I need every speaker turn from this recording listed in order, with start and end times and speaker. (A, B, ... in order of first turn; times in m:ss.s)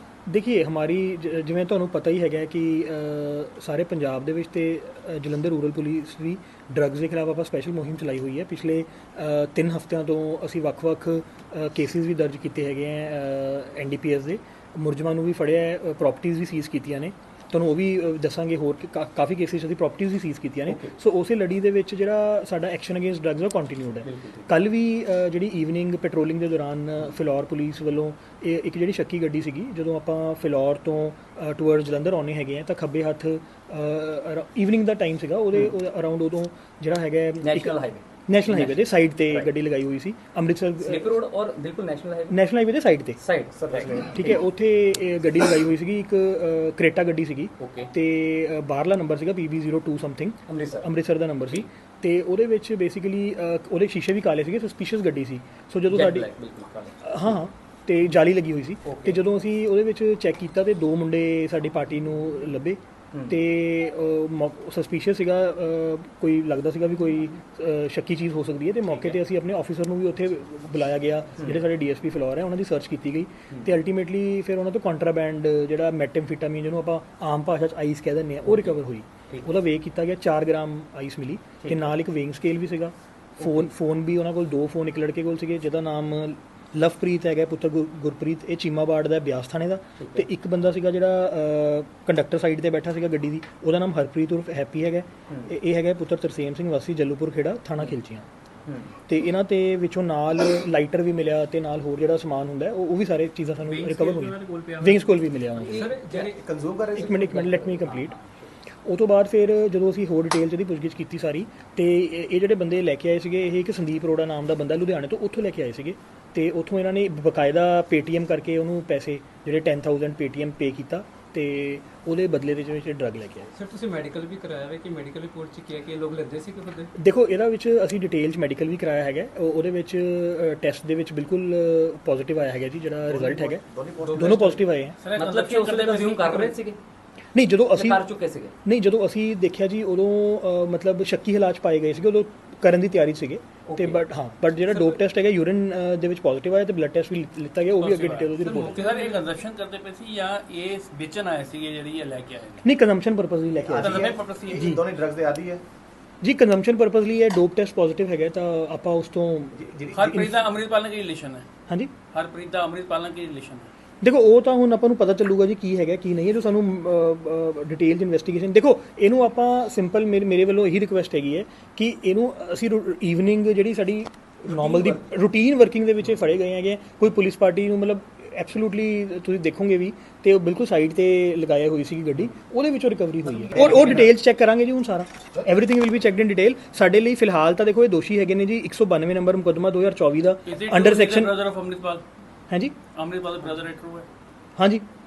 0:00.3-0:41.2 A
0:20.7-0:20.9 B
0:24.0-0:24.4 B
0:37.4-0:39.5 B
0:40.8-0:42.4 B
0:42.3-0:43.2 A
0:43.2-0:44.1 B
0:43.5-0:44.4 C
0:44.1-0:56.3 A
0:47.6-0:47.9 B
0:50.5-0:50.9 B
0:55.9-0:57.4 B
0:57.0-1:38.2 A
0:58.8-0:59.2 B
1:03.1-1:03.4 B
1:18.4-1:18.8 B
1:21.6-1:21.9 B
1:23.4-1:23.7 B
1:30.0-1:30.2 B
1:38.6-1:39.0 B
1:39.0-1:45.9 A
1:43.6-1:45.1 D
1:45.6-1:46.3 B
1:45.6-1:46.4 E
1:46.3-1:47.4 C
1:46.9-1:48.2 A
1:47.1-1:48.4 B
1:48.8-2:03.5 A
2:03.5-2:06.9 E
2:07.0-2:13.6 A
2:13.1-2:14.5 C
2:14.0-2:14.6 E
2:14.1-2:15.0 A
2:15.0-2:16.6 D
2:15.1-2:16.8 B
2:17.3-2:18.0 A
2:17.7-2:18.5 B
2:18.6-2:28.8 A
2:23.6-2:24.0 B
2:24.6-2:25.0 D
2:27.8-2:32.6 D
2:28.4-2:29.3 E
2:32.6-2:34.8 A
2:33.6-2:35.6 C
2:33.7-2:34.7 D
2:36.2-2:40.4 A
2:39.6-2:40.1 C
2:39.9-2:41.4 D
2:42.1-2:43.7 D
2:44.0-3:11.3 A
2:54.5-2:55.0 B
3:03.3-3:03.8 C
3:03.6-3:04.1 B
3:03.6-3:04.0 D
3:10.4-3:12.0 D
3:12.5-3:12.7 A
3:12.9-3:14.1 D
3:14.6-3:14.8 A